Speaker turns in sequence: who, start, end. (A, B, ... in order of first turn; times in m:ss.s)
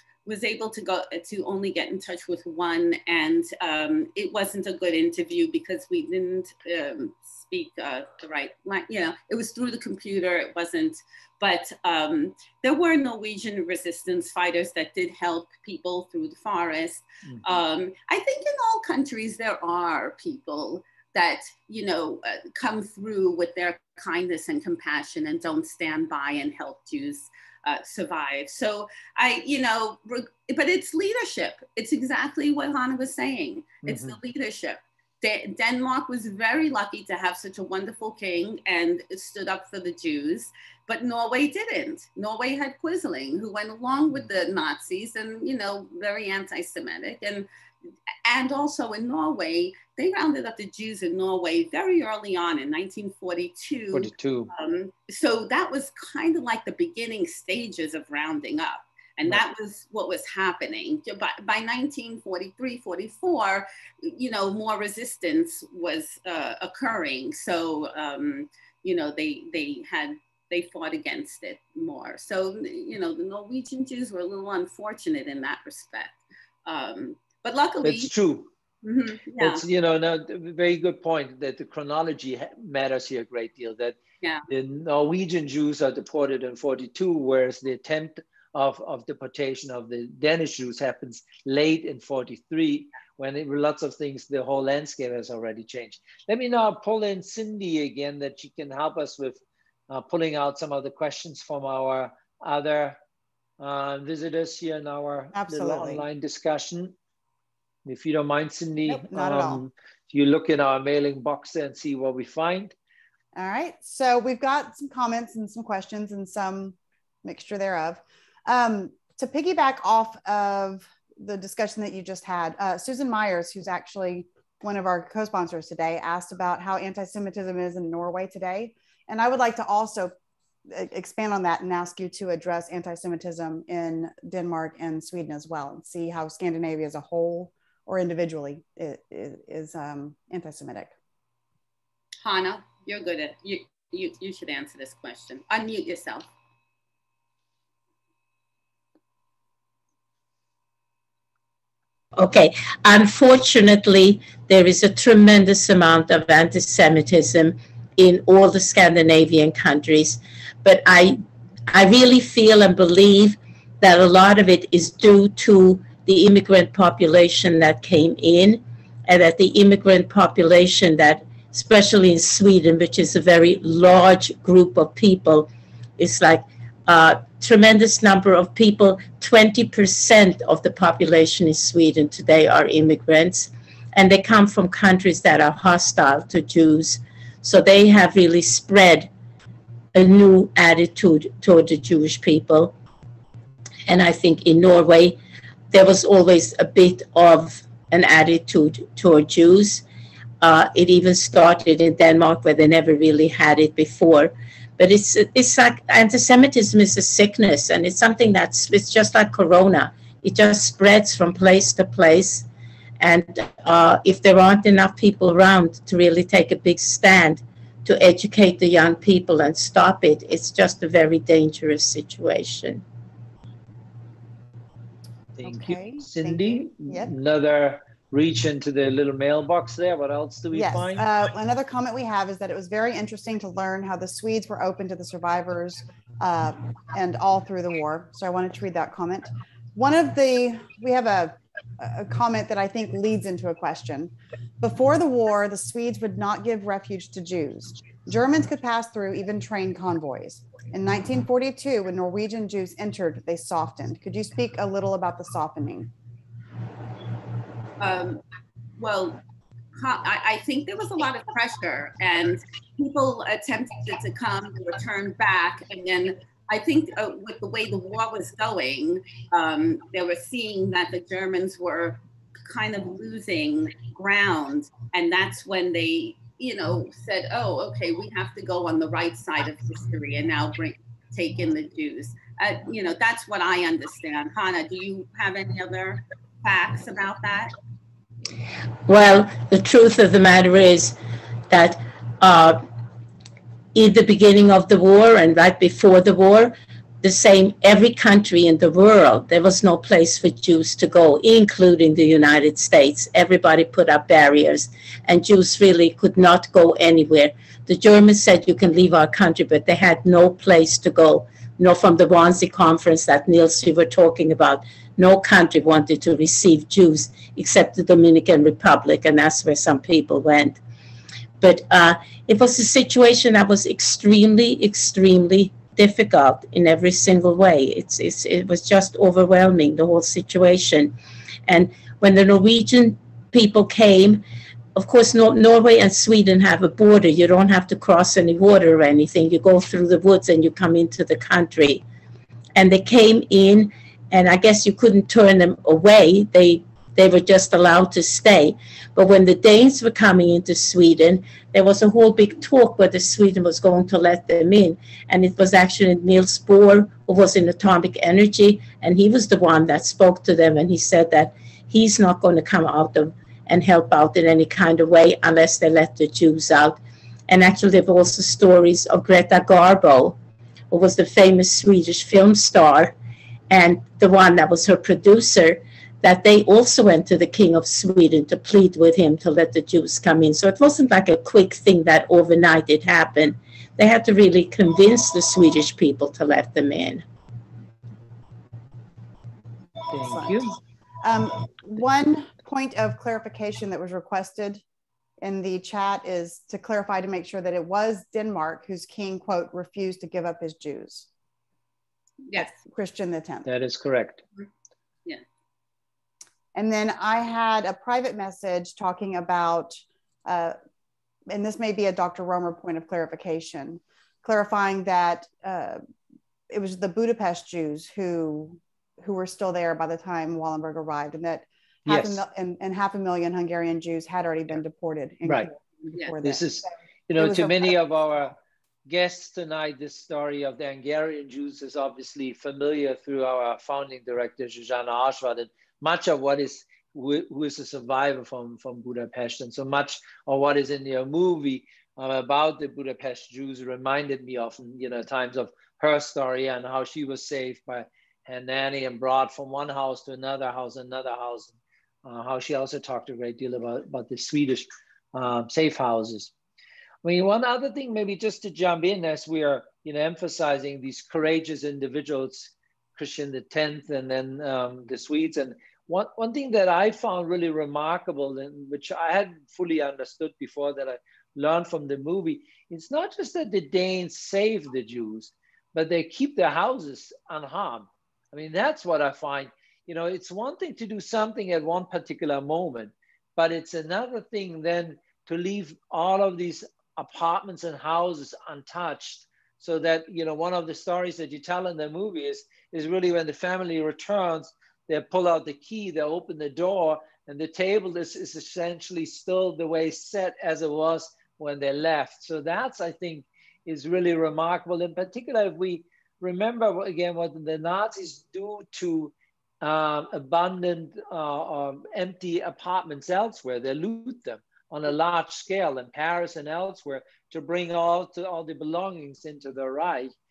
0:00.2-0:47.5 A
0:17.3-0:17.6 B
0:33.8-0:34.2 B
0:48.2-1:18.1 A
0:53.9-0:54.5 B
1:17.8-1:18.5 B
1:18.8-1:19.6 A
1:19.4-1:24.0 B
1:24.5-1:43.0 B
1:43.6-1:46.9 B
1:45.3-1:46.0 C
1:47.8-1:52.8 B
1:48.9-1:49.6 C
1:53.4-2:10.1 C
2:10.7-2:20.9 C
2:22.2-2:26.3 A
2:32.2-2:41.2 D
2:41.7-3:09.1 D
3:09.9-3:12.7 D
3:13.9-3:15.2 D
3:15.7-3:19.8 D
3:20.4-3:32.5 D
3:33.0-3:42.8 D
3:45.4-3:51.0 B
3:45.4-3:47.1 C
3:50.5-4:15.9 C
4:17.8-4:18.2 A
4:18.8-4:19.2 A
4:19.8-4:47.6 A
4:48.9-4:51.0 D
4:51.5-4:52.6 D
4:53.8-5:20.6 D
5:21.4-5:31.0 D
5:31.5-5:34.2 D
5:34.8-5:41.8 D
5:42.6-6:10.2 D
6:10.7-6:12.9 D
6:13.5-6:27.1 D
6:29.9-6:30.6 B
6:30.1-6:30.4 C
6:31.0-6:34.6 C
6:35.2-6:41.1 C
6:42.4-6:43.5 C
6:43.5-6:44.2 B
6:46.6-6:50.6 C
6:51.3-6:55.8 C
6:56.5-7:06.4 C
7:01.9-7:02.2 B
7:06.2-7:08.4 B
7:07.2-7:07.7 C
7:08.9-7:36.3 B
7:37.0-8:40.1 B